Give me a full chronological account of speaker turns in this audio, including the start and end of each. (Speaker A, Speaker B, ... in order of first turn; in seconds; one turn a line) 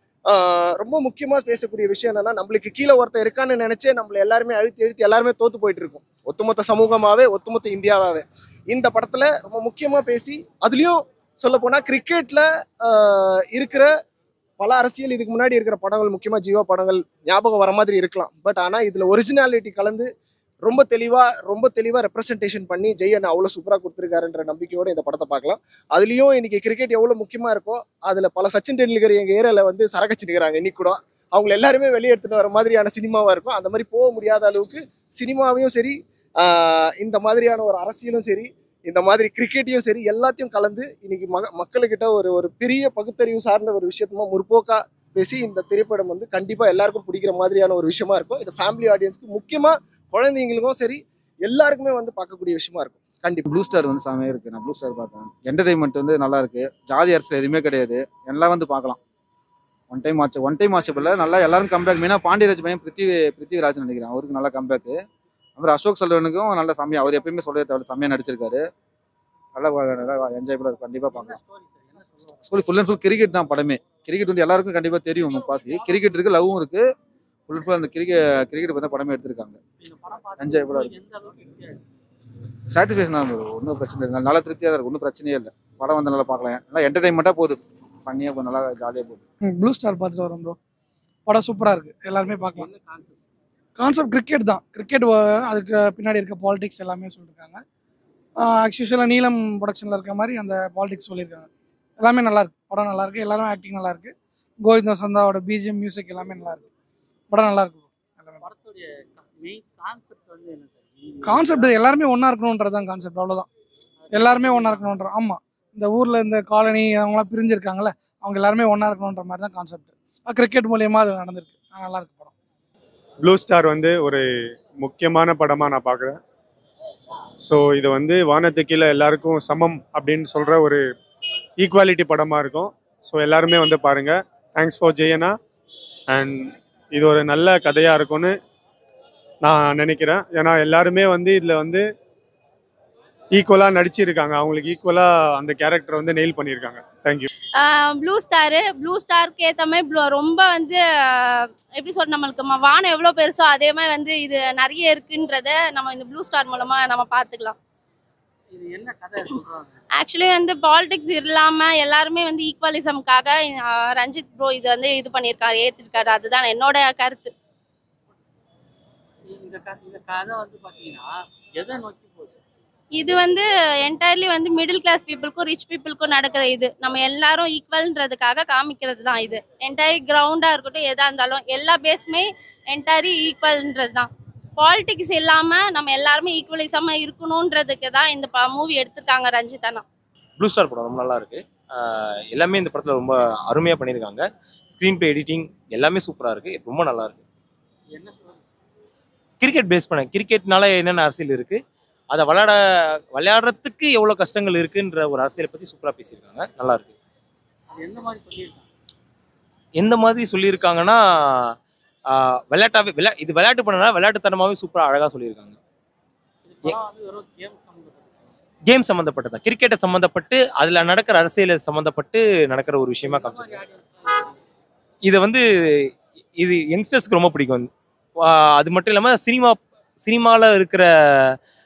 Speaker A: 0.3-13.9
Speaker A: 14.6-20.1
Speaker A: 20.6-53.5
Speaker B: 53.5-59.0
Speaker B: 59.9-65.0
Speaker B: 65.6-68.6
Speaker B: 69.5-71.4
Speaker C: 71.0-72.4
Speaker B: 72.5-76.8
Speaker B: 77.5-79.6
Speaker C: 79.8-81.8
Speaker B: 80.4-80.9
Speaker B: 82.7-89.2
Speaker D: 89.4-90.6
Speaker D: 91.3-92.7
Speaker C: 92.2-93.2
Speaker D: 93.8-97.6
Speaker D: 98.4-106.7
Speaker D: 107.3-108.4
Speaker C: 108.4-111.8
Speaker D: 111.2-113.5
Speaker C: 114.0-115.0
Speaker D: 114.1-122.3
Speaker E: 123.2-124.2
Speaker E: 124.8-126.2
Speaker E: 127.4-130.8
Speaker E: 131.6-135.3
Speaker E: 136.1-138.3
Speaker E: 139.4-141.8
Speaker E: 143.3-147.3
Speaker F: 147.6-157.6
Speaker C: 158.5-159.8
Speaker F: 160.0-167.3
Speaker C: 169.3-172.3
Speaker F: 172.9-189.8
Speaker G: 190.4-197.2
Speaker C: 197.9-198.4
Speaker G: 199.4-202.6
Speaker G: 203.1-206.9
Speaker C: 207.7-208.6
Speaker G: 209.8-211.6
Speaker G: 212.1-215.6
Speaker C: 216.4-218.2
Speaker G: 218.7-223.6
Speaker C: 223.0-224.4
Speaker G: 225.0-231.3